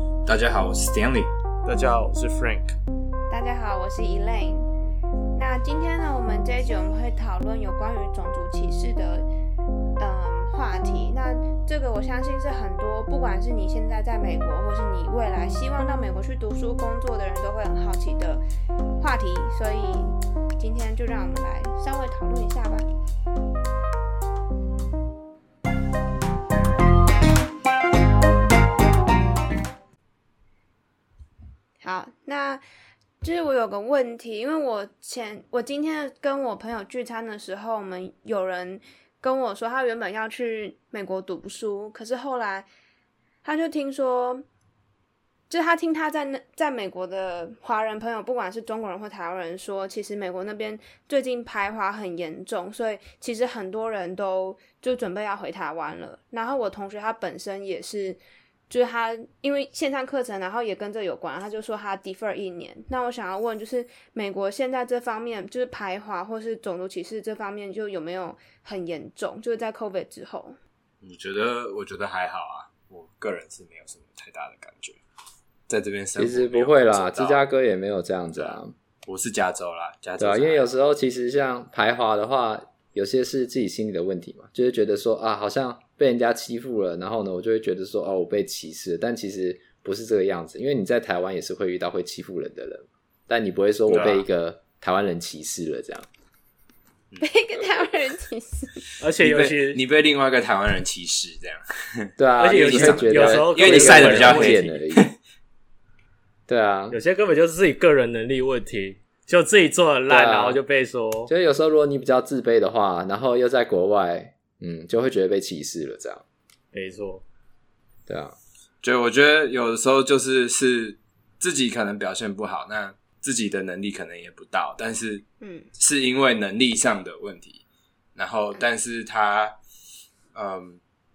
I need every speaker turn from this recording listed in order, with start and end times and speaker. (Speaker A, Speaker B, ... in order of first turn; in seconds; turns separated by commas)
Speaker A: 0.3-1.3, Speaker B: 1.6-2.8, Speaker C: 3.3-4.7, Speaker C: 5.4-9.3, Speaker C: 10.0-18.4, Speaker C: 19.0-22.9, Speaker C: 31.8-32.6, Speaker C: 33.2-42.7, Speaker C: 43.4-44.5, Speaker C: 45.5-70.6, Speaker A: 71.0-75.0, Speaker A: 75.7-77.4, Speaker D: 76.2-78.7, Speaker A: 78.4-80.7, Speaker D: 80.2-96.1, Speaker B: 93.9-94.2, Speaker C: 97.2-98.8, Speaker B: 99.0-99.8, Speaker A: 99.2-105.2, Speaker D: 102.2-105.1, Speaker B: 102.4-104.7, Speaker D: 106.5-107.0, Speaker B: 106.9-111.3, Speaker D: 110.1-110.6, Speaker D: 111.3-116.2, Speaker B: 116.7-117.2, Speaker D: 118.1-118.4, Speaker A: 118.8-125.3, Speaker C: 125.4-125.7, Speaker A: 125.8-127.6, Speaker A: 128.2-129.6, Speaker A: 130.3-130.8